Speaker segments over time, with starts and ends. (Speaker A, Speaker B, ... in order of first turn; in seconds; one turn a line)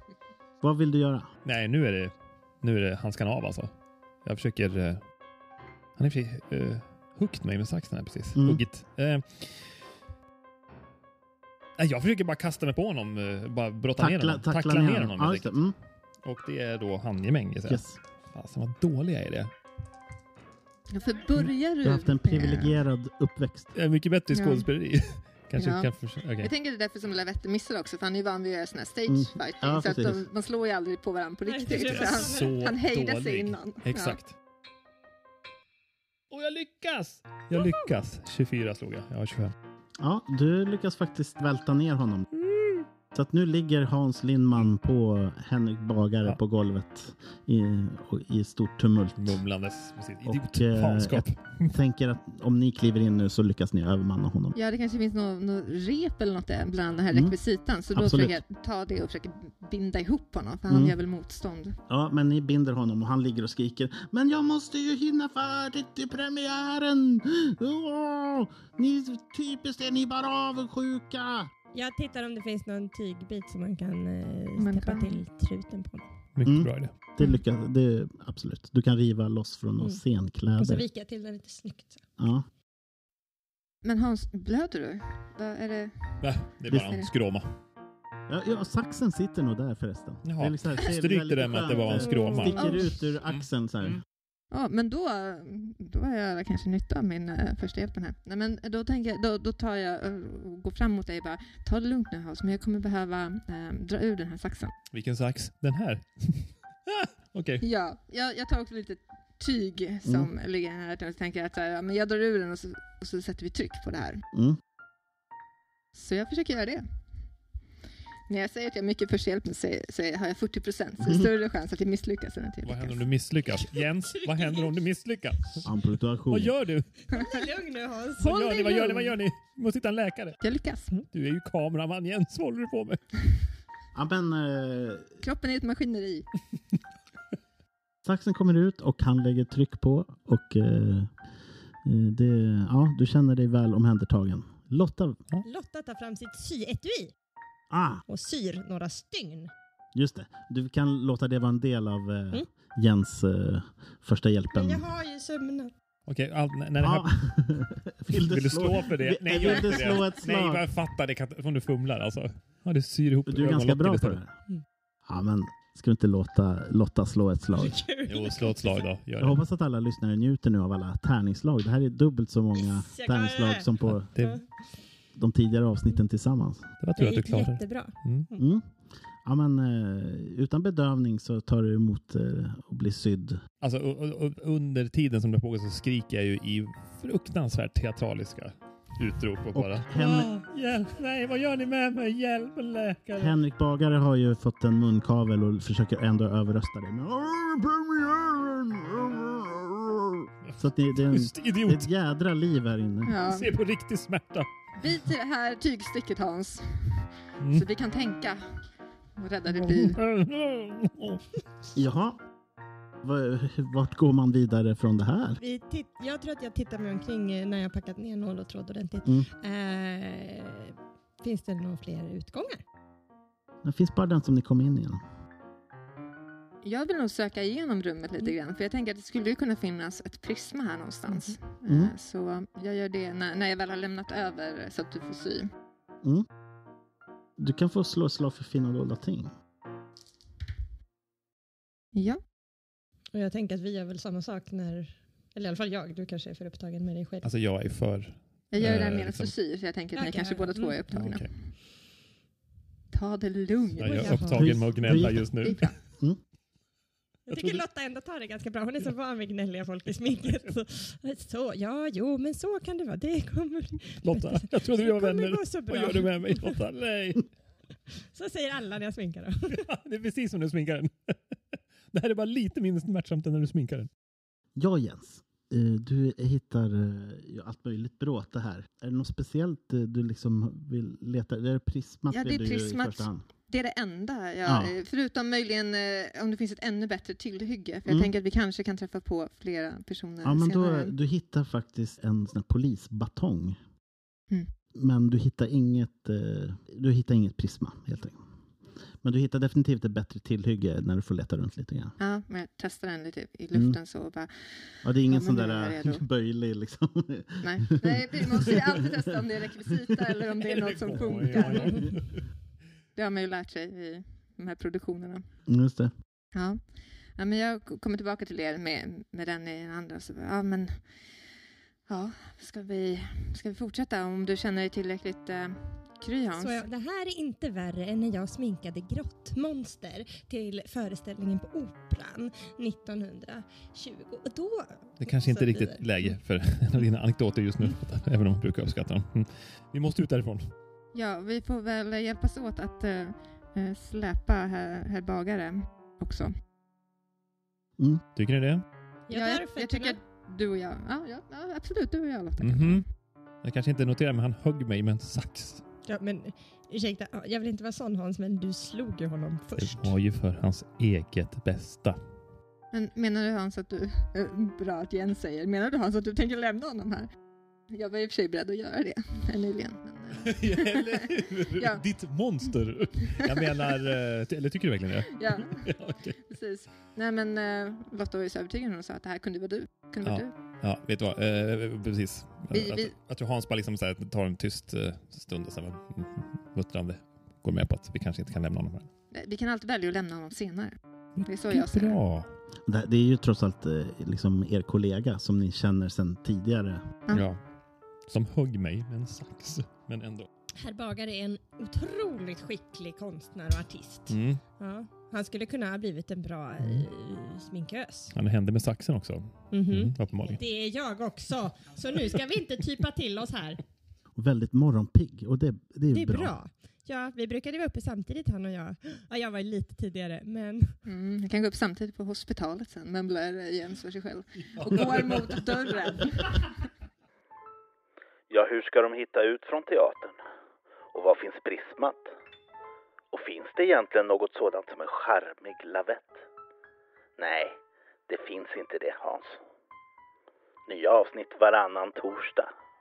Speaker A: 0.6-1.3
Speaker B: 1.4-3.7
Speaker B: 4.2-5.0
Speaker B: 6.0-9.8
Speaker A: 8.3-8.6
Speaker B: 11.8-15.6
Speaker A: 14.0-15.8
Speaker B: 16.2-19.5
Speaker A: 17.7-18.0
Speaker C: 20.9-22.8
Speaker A: 21.8-23.7
Speaker B: 23.8-26.5
Speaker C: 24.3-24.7
Speaker C: 25.6-25.9
Speaker C: 26.4-34.2
Speaker A: 29.1-30.2
Speaker D: 31.4-32.6
Speaker B: 31.7-34.3
Speaker B: 36.3-39.5
Speaker D: 37.5-37.9
Speaker A: 40.0-42.3
Speaker A: 43.1-49.4
Speaker B: 49.2-51.7
Speaker A: 50.3-54.6
Speaker C: 54.5-61.8
Speaker A: 57.9-58.4
Speaker A: 60.7-61.0
Speaker A: 61.9-71.5
Speaker D: 71.7-76.1
Speaker C: 74.6-75.2
Speaker B: 76.4-76.9
Speaker A: 76.5-80.8
Speaker D: 80.6-82.0
Speaker A: 82.2-82.5
Speaker C: 83.8-86.2
Speaker B: 86.2-87.5
Speaker A: 86.7-87.0
Speaker A: 88.3-94.0
Speaker B: 90.2-94.0
Speaker D: 91.9-93.0
Speaker C: 92.5-92.9
Speaker C: 94.5-104.7
Speaker B: 104.9-107.7
Speaker C: 107.6-114.2
Speaker A: 114.3-114.6
Speaker C: 115.9-116.8
Speaker C: 118.3-123.0
Speaker A: 121.0-121.3
Speaker B: 122.7-125.7
Speaker D: 123.8-124.8
Speaker A: 125.6-126.5
Speaker B: 126.3-126.9
Speaker D: 127.1-129.2
Speaker C: 127.1-127.4
Speaker B: 128.2-130.4
Speaker C: 130.4-130.9
Speaker B: 131.1-133.0
Speaker A: 133.9-135.1
Speaker C: 135.2-136.3
Speaker A: 138.1-141.1
Speaker A: 141.8-145.2
Speaker D: 145.4-147.1
Speaker A: 147.7-148.0
Speaker D: 148.1-149.5
Speaker A: 149.9-154.9
Speaker D: 154.5-155.7
Speaker B: 156.1-157.2
Speaker A: 156.8-160.7
Speaker B: 158.1-164.2
Speaker D: 159.4-160.2
Speaker A: 163.3-164.3
Speaker A: 165.1-167.8
Speaker D: 167.5-168.9
Speaker B: 168.1-169.4
Speaker A: 169.2-174.1
Speaker D: 172.6-174.7
Speaker B: 173.8-174.4
Speaker A: 175.2-176.7
Speaker B: 176.8-178.3
Speaker D: 177.0-178.5
Speaker A: 178.4-178.7
Speaker A: 179.2-183.4
Speaker B: 183.6-193.3
Speaker A: 189.6-190.3
Speaker A: 193.2-203.2
Speaker B: 200.5-201.9
Speaker C: 203.1-203.5
Speaker B: 203.2-204.5
Speaker C: 204.8-208.4
Speaker B: 207.4-207.7
Speaker C: 209.2-210.0
Speaker B: 209.5-211.2
Speaker A: 211.7-212.2
Speaker A: 213.0-215.4
Speaker D: 215.4-222.6
Speaker A: 223.6-225.0
Speaker C: 226.6-235.5
Speaker D: 231.1-231.4
Speaker A: 231.7-231.9
Speaker A: 237.4-239.3
Speaker C: 241.9-242.2
Speaker D: 243.1-247.3
Speaker B: 247.2-249.3
Speaker C: 248.5-251.3
Speaker D: 249.9-251.1
Speaker B: 250.9-251.3
Speaker C: 252.9-254.2
Speaker B: 253.8-255.8
Speaker D: 253.8-255.0
Speaker A: 254.3-255.3
Speaker C: 255.4-255.8
Speaker A: 255.9-256.2
Speaker D: 257.3-266.6
Speaker B: 257.3-257.6
Speaker B: 264.0-267.3
Speaker D: 267.9-269.6
Speaker B: 269.5-273.9
Speaker A: 274.6-283.2
Speaker C: 282.1-290.9
Speaker A: 284.4-284.7
Speaker A: 290.2-293.6
Speaker A: 294.8-298.2
Speaker A: 299.0-302.0
Speaker C: 302.0-304.5
Speaker A: 304.8-309.0
Speaker C: 305.1-306.0
Speaker C: 307.4-311.9
Speaker B: 310.4-312.2
Speaker D: 311.5-311.8
Speaker C: 313.0-315.2
Speaker A: 315.5-315.9
Speaker C: 316.3-316.6
Speaker C: 317.2-320.8
Speaker C: 321.9-326.7
Speaker D: 326.4-336.2
Speaker B: 335.0-340.5
Speaker C: 340.9-346.3
Speaker B: 348.2-348.6
Speaker D: 349.1-350.0
Speaker C: 349.1-352.9
Speaker B: 352.4-352.8
Speaker B: 353.4-355.6
Speaker D: 355.9-360.0
Speaker B: 359.6-362.0
Speaker C: 362.7-367.1
Speaker C: 367.7-371.8
Speaker B: 370.2-376.2
Speaker C: 373.2-373.7
Speaker C: 375.0-375.7
Speaker C: 376.2-380.3
Speaker B: 380.0-388.9
Speaker C: 382.5-382.9
Speaker C: 389.1-392.0
Speaker B: 391.2-392.3
Speaker A: 392.7-396.9
Speaker B: 397.1-397.4
Speaker B: 398.1-400.3
Speaker D: 400.6-408.1
Speaker B: 404.1-404.4
Speaker B: 408.1-410.4
Speaker D: 409.5-413.6
Speaker A: 414.2-416.3
Speaker D: 415.9-420.8
Speaker C: 420.9-426.6
Speaker B: 424.7-425.3
Speaker E: 428.3-430.2
Speaker E: 430.9-432.1
Speaker E: 433.1-436.2
Speaker E: 437.2-439.4
Speaker E: 440.7-442.5